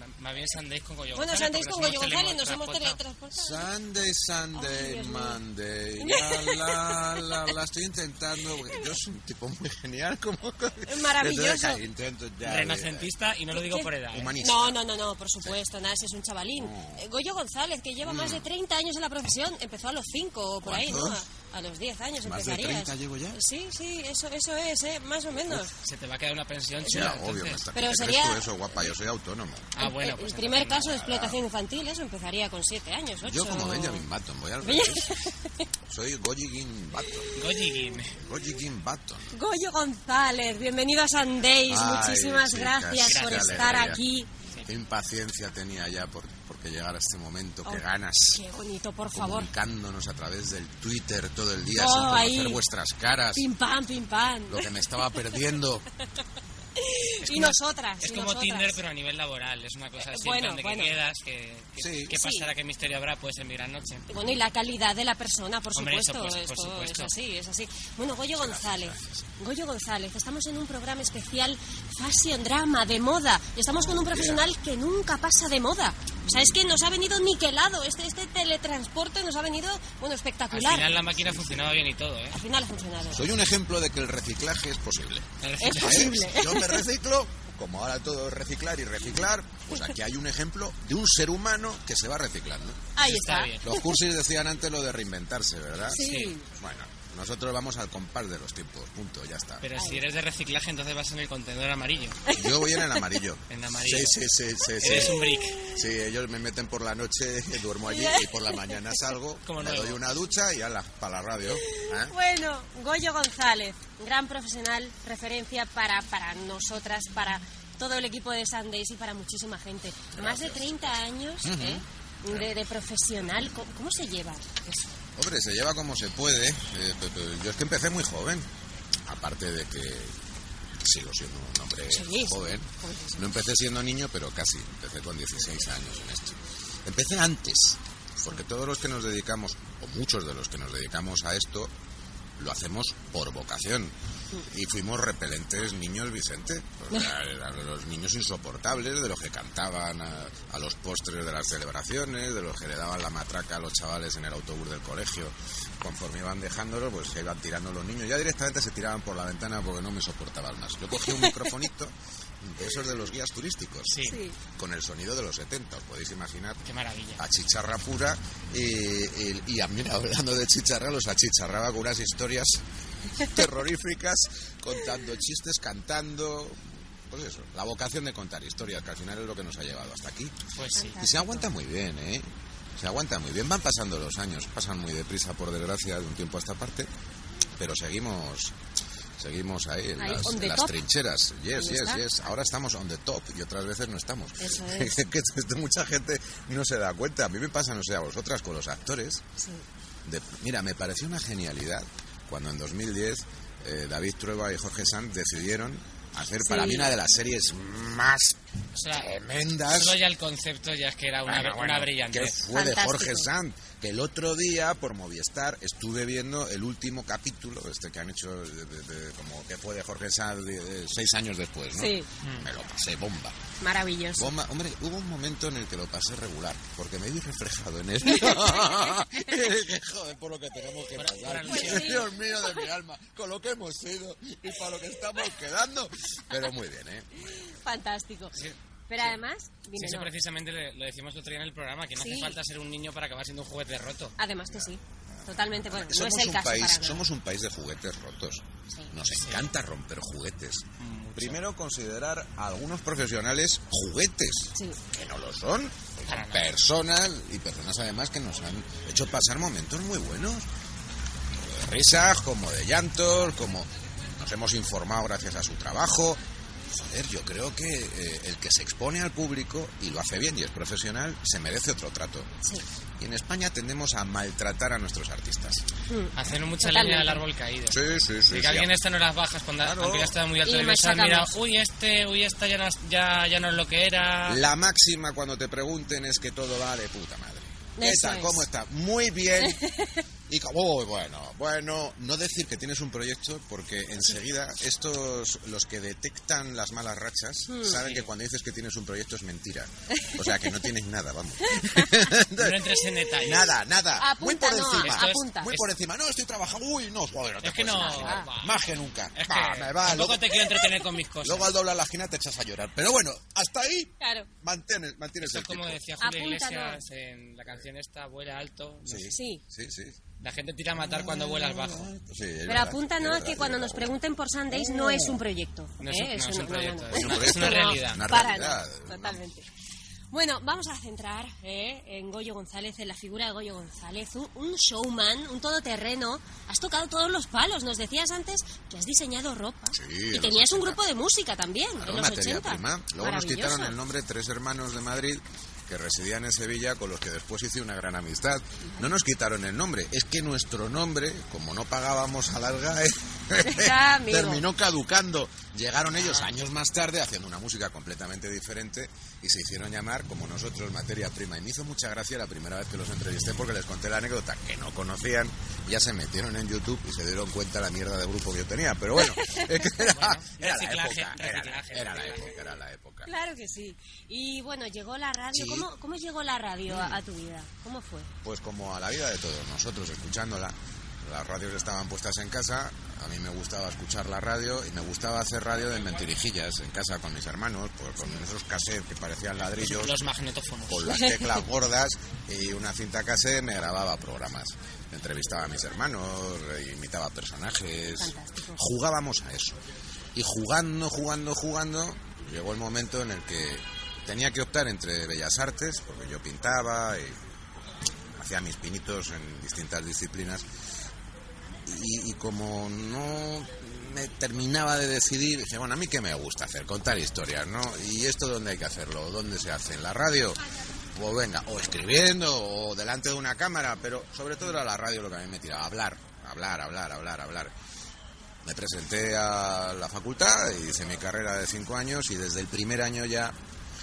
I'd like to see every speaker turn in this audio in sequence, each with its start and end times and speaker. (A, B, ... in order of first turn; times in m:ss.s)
0:00.5-0:03.0 A
0:01.2-0:03.6 B
0:03.3-0:13.2 C
0:04.5-0:05.4 B
0:06.0-0:07.5 B
0:10.9-0:11.9 B
0:12.5-0:14.3 A
0:13.5-0:25.7 B
0:14.0-0:14.8 C
0:16.5-0:17.0 C
0:18.0-0:18.4 C
0:20.6-0:21.3 C
0:22.2-0:23.4 C
0:25.9-0:27.6 A
0:26.9-0:29.7 C
0:26.9-0:27.2 B
0:27.7-0:28.9 B
0:29.8-0:34.0 B
0:29.8-0:31.0 A
0:31.0-0:31.4 C
0:33.2-0:35.1 C
0:34.6-0:35.6 B
0:35.8-0:37.5 C
0:37.4-0:38.1 A
0:38.1-0:39.4 C
0:39.3-0:44.3 B
0:41.7-0:44.0 C
0:43.1-0:43.9 A
0:44.7-0:48.4 C
0:47.6-0:49.5 B
0:49.1-0:53.5 C
0:51.7-0:52.6 B
0:53.3-0:54.7 B
0:54.5-0:55.8 C
0:56.8-0:58.8 B
0:57.2-1:04.1 A
1:00.0-1:01.0 B
1:01.8-1:02.2 C
1:02.1-1:02.5 B
1:04.1-1:21.0 B
1:05.8-1:07.1 A
1:08.3-1:09.2 C
1:13.8-1:14.5 C
1:16.2-1:16.6 C
1:20.5-1:22.4 A
1:21.2-1:21.6 C
1:22.3-1:23.2 B
1:23.1-1:33.0 C
1:25.4-1:26.1 A
1:25.6-1:26.8 B
1:33.0-1:34.0 B
1:33.0-1:33.7 A
1:33.6-1:39.7 C
1:35.9-1:36.4 B
1:36.0-1:36.3 A
1:39.6-1:40.2 A
1:39.8-1:40.0 B
1:42.3-1:43.1 B
1:42.3-1:52.1 C
1:43.5-1:44.1 A
1:44.8-1:45.6 A
1:44.9-1:45.6 B
1:47.9-1:48.6 B
1:49.5-1:50.0 A
1:51.6-2:04.9 B
2:00.1-2:00.9 C
2:01.4-2:02.5 C
2:05.2-2:08.5 C
2:09.1-2:10.2 C
2:10.8-2:21.7 C
2:11.9-2:13.3 B
2:22.4-2:23.9 C
2:24.5-2:46.6 C
2:41.1-2:41.4 B
2:43.9-2:44.2 A
2:44.0-2:44.4 B
2:46.6-2:47.2 A
2:47.2-2:52.6 C
2:53.2-3:00.3 C
3:00.6-3:01.0 A
3:00.8-3:01.5 B
3:01.0-3:06.9 C
3:07.6-3:08.6 C
3:09.2-3:19.2 C
3:10.0-3:10.8 B
3:11.6-3:12.0 B
3:14.4-3:15.0 B
3:19.4-3:19.6 B
3:20.0-3:28.4 C
3:26.4-3:26.9 B
3:28.8-3:32.4 A
3:28.9-3:30.0 C
3:31.3-3:43.4 C
3:32.5-3:33.3 B
3:41.7-3:42.1 B
3:43.6-3:44.3 B
3:44.2-3:57.3 C
3:48.1-3:49.3 B
3:51.0-3:52.0 A
3:51.4-3:52.7 B
3:57.6-3:58.4 B
3:58.3-3:59.2 A
3:58.9-4:00.1 B
3:59.7-4:04.1 A
4:02.0-4:02.4 B
4:04.2-4:07.0 B
4:04.5-4:20.5 C
4:09.1-4:09.5 A
4:10.8-4:11.4 A
4:16.1-4:16.5 A
4:21.6-4:32.3 C
4:33.0-4:35.6 C
4:35.9-4:37.2 B
4:36.2-4:37.8 A
4:37.7-4:38.8 C
4:38.3-4:44.4 A
4:39.6-4:40.2 C
4:40.4-4:41.3 B
4:44.2-4:49.6 C
4:47.8-4:48.5 B
4:49.4-4:50.0 B
4:50.3-5:15.8 C
4:57.5-4:57.8 B
4:57.8-4:58.1 A
5:00.0-5:00.5 B
5:01.5-5:02.1 B
5:02.4-5:03.5 A
5:04.0-5:05.6 B
5:04.8-5:05.7 A
5:07.4-5:08.5 A
5:07.7-5:08.3 B
5:09.1-5:11.5 A
5:14.0-5:14.3 B
5:15.2-5:19.1 A
5:16.0-5:16.8 B
5:18.8-5:20.0 C
5:19.1-5:19.4 B
5:20.2-5:21.9 A
5:20.8-5:23.9 C
5:22.5-5:29.4 B
5:24.6-5:25.2 A
5:25.8-5:28.1 A
5:26.9-5:29.3 C
5:30.1-5:43.8 B
5:39.7-5:40.8 C
5:41.8-6:13.1 C
5:53.4-5:54.4 B
5:56.0-5:56.3 A
6:09.0-6:09.4 B
6:09.8-6:12.3 A
6:13.1-6:18.1 B
6:15.3-6:15.7 C
6:16.7-6:17.0 C
6:18.2-6:30.0 C
6:29.6-6:30.9 A
6:30.7-6:39.6 C
6:30.9-6:31.4 B
6:38.0-6:38.7 B
6:40.2-6:47.2 C
6:48.1-6:50.4 C
6:51.6-7:00.4 C
7:00.9-7:07.5 C
7:08.4-7:13.4 C